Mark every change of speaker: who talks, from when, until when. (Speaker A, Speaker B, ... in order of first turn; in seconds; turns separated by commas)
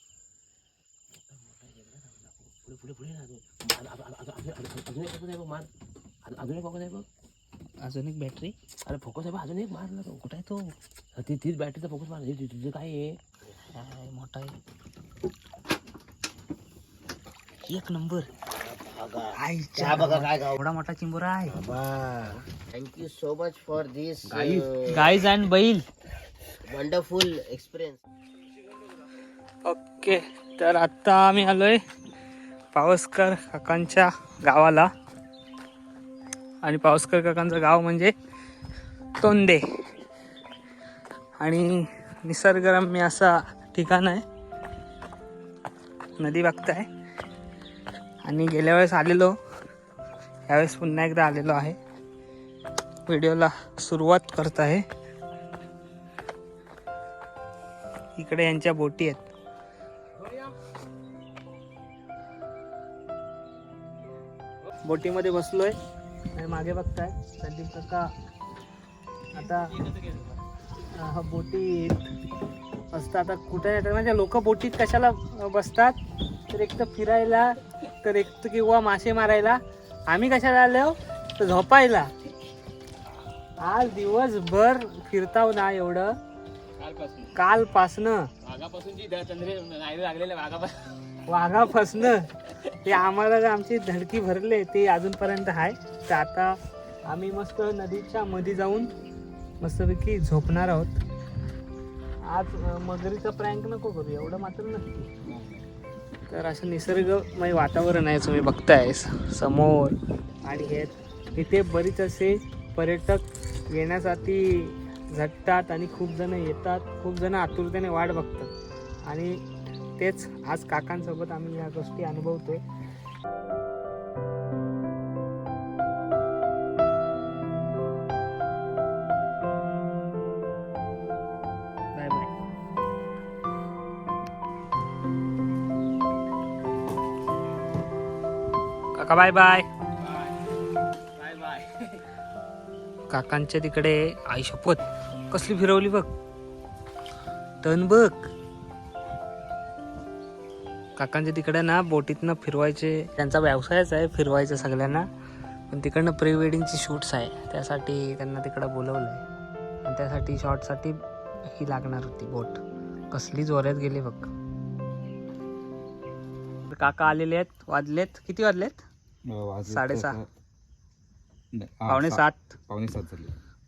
Speaker A: 1.3-5.7, Speaker A: 6.2-7.0, Speaker B: 7.8-8.5, Speaker A: 8.9-10.3, Speaker B: 10.2-10.6, Speaker A: 11.2-13.2, Speaker B: 13.7-14.6, Speaker B: 17.7-18.3, Speaker C: 18.5-20.6, Speaker B: 19.4-21.6, Speaker C: 21.5-25.1, Speaker A: 24.2-24.7, Speaker B: 24.9-25.8, Speaker C: 26.6-28.0, Speaker B: 29.6-31.8, Speaker B: 32.7-34.9, Speaker B: 36.6-38.1, Speaker B: 39.2-39.6, Speaker B: 41.4-44.2, Speaker B: 46.2-46.9, Speaker B: 48.2-49.4, Speaker B: 50.5-51.8, Speaker B: 53.1-54.9, Speaker B: 58.2-59.3, Speaker A: 60.2-60.6, Speaker B: 64.8-65.8, Speaker B: 66.3-68.1, Speaker B: 69.3-69.7, Speaker A: 69.4-70.4, Speaker B: 70.9-72.1, Speaker B: 72.9-76.0, Speaker B: 76.5-82.1, Speaker B: 83.6-86.2, Speaker A: 86.8-87.3, Speaker B: 87.3-88.3, Speaker A: 88.4-91.2, Speaker B: 91.3-92.3, Speaker B: 92.8-98.9, Speaker B: 99.6-101.0, Speaker B: 102.3-105.3, Speaker B: 106.3-118.5, Speaker B: 119.1-119.4, Speaker B: 120.0-122.6, Speaker B: 131.9-132.3, Speaker B: 138.9-139.7, Speaker A: 140.0-140.4, Speaker A: 141.2-142.1, Speaker B: 143.1-146.1, Speaker B: 147.6-148.3, Speaker B: 151.0-155.1, Speaker B: 155.7-159.2, Speaker B: 159.8-164.3, Speaker B: 166.7-168.8, Speaker D: 169.3-170.2, Speaker B: 169.7-170.2, Speaker D: 171.5-173.3, Speaker B: 171.9-172.6